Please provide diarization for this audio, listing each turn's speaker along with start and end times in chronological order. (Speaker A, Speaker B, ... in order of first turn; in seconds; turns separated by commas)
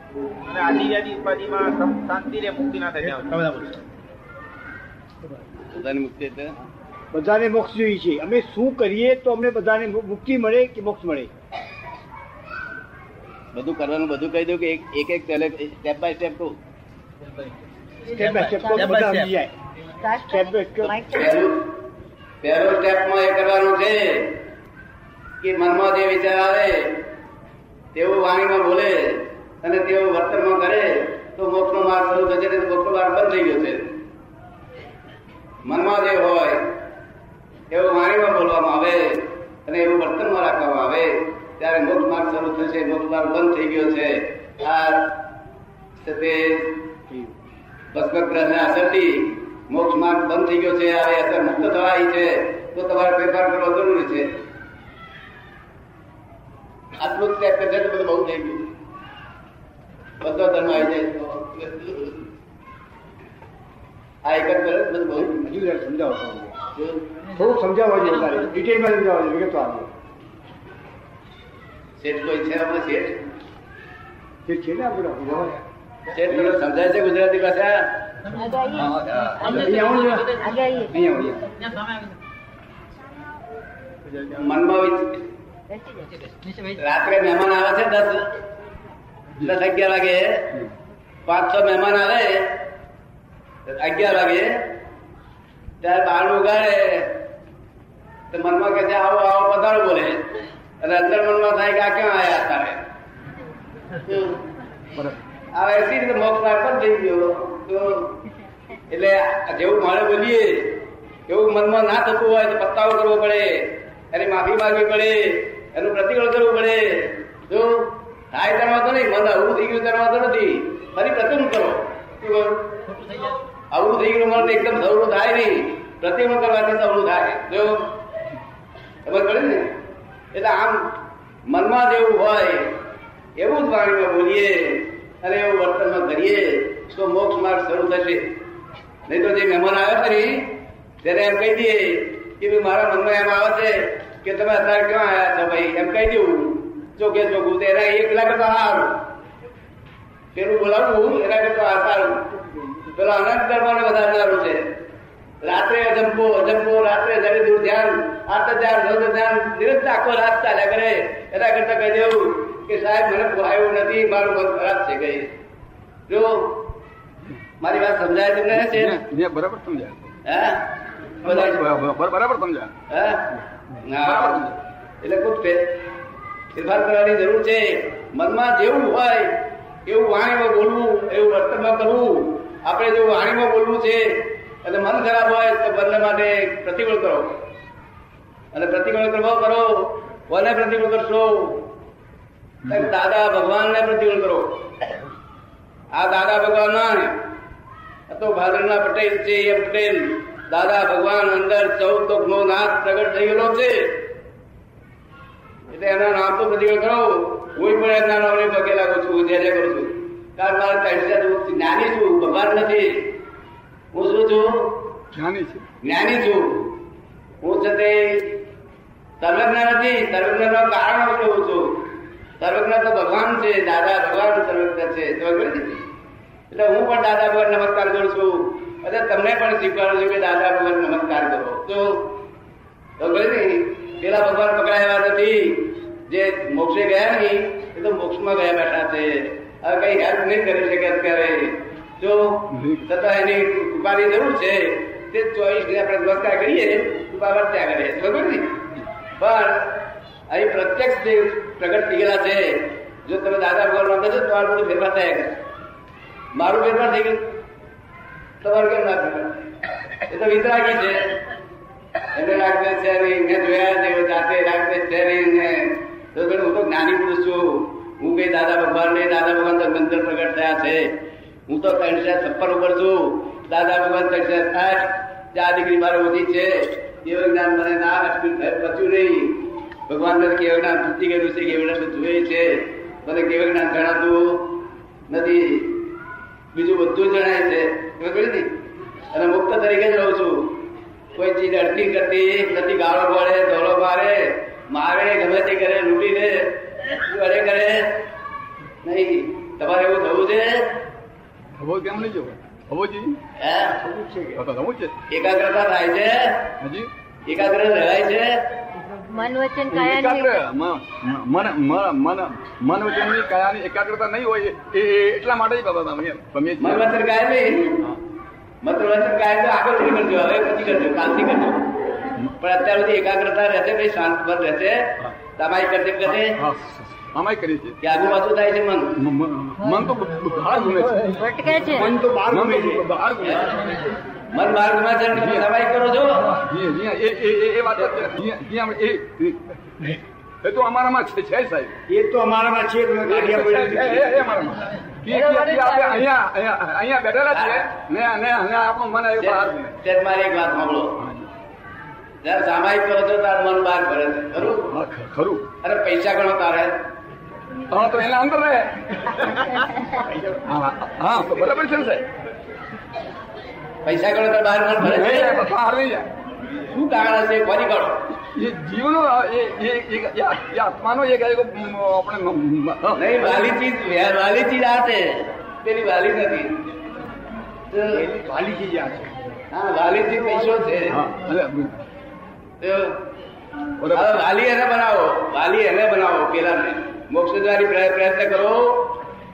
Speaker A: 0.5-3.7, Speaker B: 5.7-6.5, Speaker C: 7.1-11.3, Speaker B: 13.5-16.6, Speaker C: 18.1-19.5, Speaker D: 18.5-19.3, Speaker D: 20.0-21.3, Speaker C: 20.3-21.1, Speaker B: 21.1-21.7, Speaker B: 22.4-24.4, Speaker B: 25.4-27.1, Speaker B: 27.9-33.9, Speaker B: 35.6-36.7, Speaker B: 37.7-45.2, Speaker B: 46.0-47.1, Speaker B: 47.9-54.3, Speaker B: 57.0-58.7, Speaker B: 60.2-62.3, Speaker B: 64.2-65.4, Speaker C: 65.2-66.6, Speaker B: 66.8-67.1, Speaker C: 67.2-69.9, Speaker B: 72.0-73.2, Speaker C: 74.5-75.6, Speaker B: 76.1-77.9, Speaker D: 78.4-79.5, Speaker E: 78.8-79.9, Speaker C: 79.5-81.6, Speaker D: 80.4-80.9, Speaker B: 84.3-85.2, Speaker D: 85.7-86.2, Speaker B: 86.7-88.4, Speaker B: 89.4-90.6, Speaker B: 91.2-92.6, Speaker B: 93.7-94.6, Speaker B: 95.8-97.2, Speaker B: 98.3-102.8, Speaker B: 104.0-104.4, Speaker B: 105.5-108.2, Speaker B: 108.9-127.9, Speaker B: 129.1-129.7, Speaker B: 130.3-131.0, Speaker B: 131.5-132.8, Speaker B: 133.4-138.3, Speaker B: 139.1-149.1, Speaker B: 150.3-152.3, Speaker B: 152.8-154.7, Speaker B: 155.4-165.3, Speaker B: 166.1-166.7, Speaker B: 167.6-169.0, Speaker E: 168.5-170.1, Speaker B: 170.2-171.8, Speaker E: 171.2-172.7, Speaker B: 172.9-174.4, Speaker E: 173.7-174.6, Speaker B: 175.0-175.8, Speaker B: 176.5-187.4, Speaker B: 188.5-191.7, Speaker B: 192.7-194.7, Speaker B: 195.9-197.2, Speaker B: 198.1-204.1, Speaker B: 205.7-213.1, Speaker B: 213.9-214.9, Speaker E: 215.1-215.7, Speaker B: 215.8-216.8, Speaker B: 217.4-218.4, Speaker B: 219.2-221.9, Speaker B: 222.4-225.8, Speaker B: 226.5-232.2, Speaker B: 233.0-248.6, Speaker E: 242.5-242.9, Speaker B: 249.2-255.4, Speaker B: 256.3-257.2, Speaker B: 258.4-259.4, Speaker B: 260.1-261.2, Speaker B: 262.1-270.9, Speaker B: 271.5-285.9, Speaker B: 286.5-288.5, Speaker B: 289.1-290.6, Speaker B: 291.1-298.0, Speaker B: 298.8-300.8, Speaker E: 301.6-303.2, Speaker B: 303.4-303.8, Speaker C: 303.8-304.4, Speaker E: 304.4-304.9, Speaker B: 305.1-306.5, Speaker E: 306.6-306.9, Speaker B: 307.3-308.3, Speaker D: 309.1-310.4, Speaker E: 309.7-316.9, Speaker B: 316.6-317.9, Speaker B: 318.6-321.7, Speaker B: 322.4-326.4, Speaker E: 326.1-327.8, Speaker B: 327.8-329.0, Speaker E: 329.0-331.6, Speaker D: 331.2-331.8, Speaker C: 331.6-332.9, Speaker E: 332.2-333.9, Speaker B: 334.3-336.4, Speaker E: 335.1-335.4, Speaker E: 336.3-339.9, Speaker E: 340.4-341.8, Speaker C: 341.9-344.3, Speaker E: 343.1-349.7, Speaker B: 347.3-347.6, Speaker B: 349.2-351.0, Speaker E: 351.0-351.3, Speaker B: 352.2-354.8, Speaker E: 354.5-355.5, Speaker B: 355.6-356.8, Speaker E: 357.7-359.6, Speaker E: 360.3-362.1, Speaker B: 363.9-365.4, Speaker E: 364.8-366.1, Speaker B: 366.7-368.1, Speaker E: 368.1-373.5, Speaker B: 372.9-376.6, Speaker B: 377.7-378.0, Speaker C: 377.9-379.1, Speaker B: 379.5-381.0, Speaker E: 380.9-381.9, Speaker B: 382.6-383.1, Speaker E: 383.8-384.2, Speaker B: 383.9-388.9